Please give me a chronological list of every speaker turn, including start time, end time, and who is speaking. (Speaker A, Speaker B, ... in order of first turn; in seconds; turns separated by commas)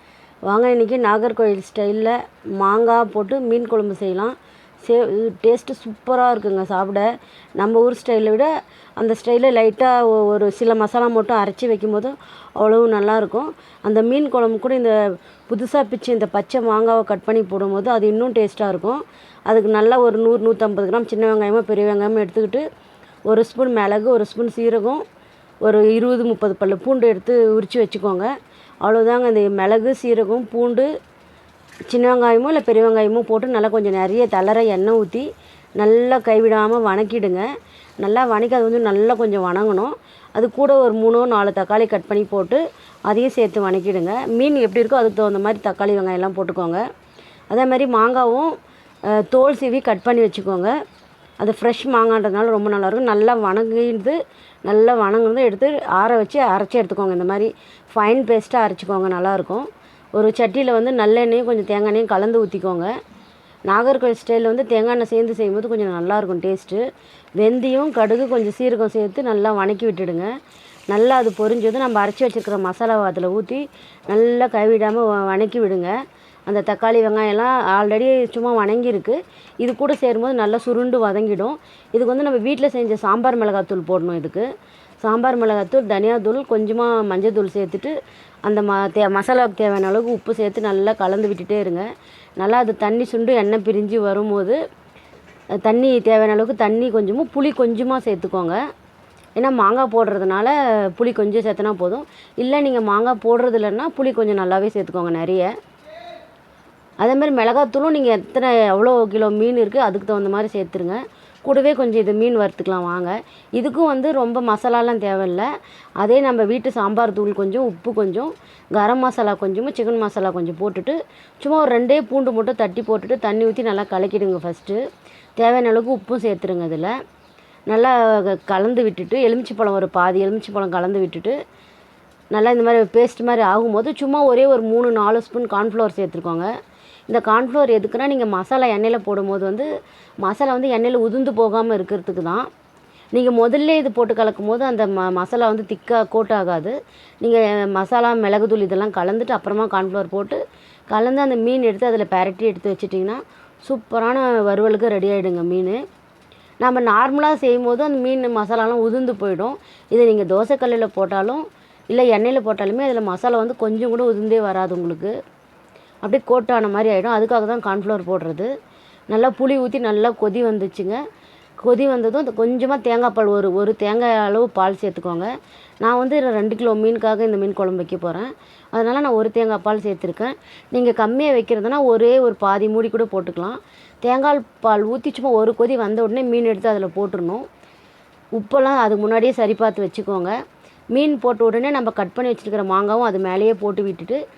Speaker A: 0.5-22.7, Speaker A: 23.3-25.0, Speaker A: 25.6-28.3, Speaker A: 28.8-30.9, Speaker A: 31.9-35.3, Speaker A: 35.8-37.5, Speaker A: 38.0-46.8, Speaker A: 47.5-48.5, Speaker A: 49.1-50.8, Speaker A: 51.4-62.9, Speaker A: 63.7-66.8, Speaker A: 67.4-70.3, Speaker A: 70.9-76.0, Speaker A: 76.5-84.5, Speaker A: 85.0-91.9, Speaker A: 92.4-94.6, Speaker A: 95.6-98.6, Speaker A: 99.4-105.5, Speaker A: 107.0-115.5, Speaker A: 116.0-124.8, Speaker A: 125.4-126.9, Speaker A: 127.7-131.4, Speaker A: 132.3-136.5, Speaker A: 137.1-139.7, Speaker A: 140.2-142.5, Speaker A: 143.1-155.8, Speaker A: 156.6-165.1, Speaker A: 166.0-168.5, Speaker A: 169.1-171.0, Speaker A: 171.6-175.3, Speaker A: 175.8-187.4, Speaker A: 188.4-190.3, Speaker A: 190.9-194.2